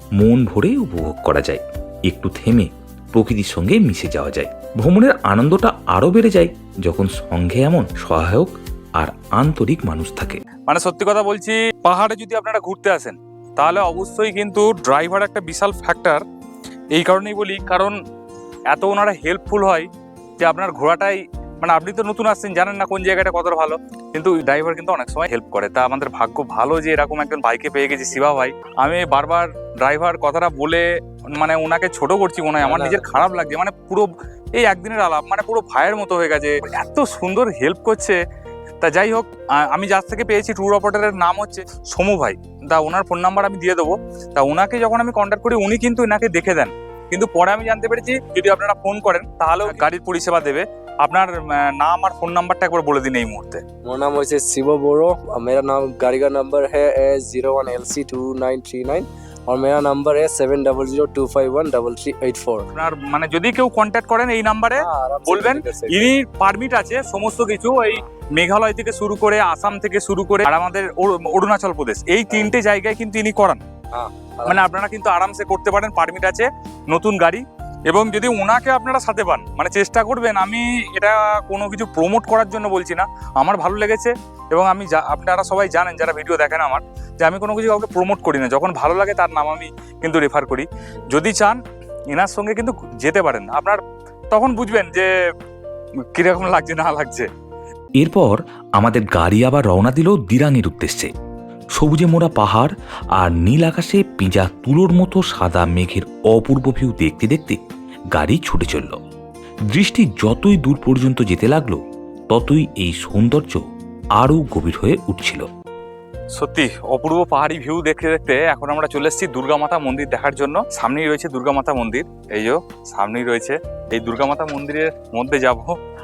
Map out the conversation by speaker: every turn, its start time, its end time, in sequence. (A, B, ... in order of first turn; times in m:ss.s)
0:00.2-0:10.4 A
0:10.7-0:16.2 B
0:16.9-0:18.0 B
0:18.7-0:19.9 B
0:20.4-0:38.2 B
0:32.6-0:33.3 C
0:38.8-0:53.6 B
0:53.9-1:02.7 C
1:02.8-1:13.6 B
1:04.8-1:06.1 C
1:12.3-1:12.6 C
1:13.9-1:14.6 C
1:14.4-1:31.6 B
1:32.1-1:35.1 B
1:36.2-1:37.3 B
1:38.0-1:41.1 A
1:41.8-1:47.6 A
1:48.1-1:49.0 A
1:49.7-1:53.6 A
1:54.2-1:55.5 A
1:56.4-2:05.8 B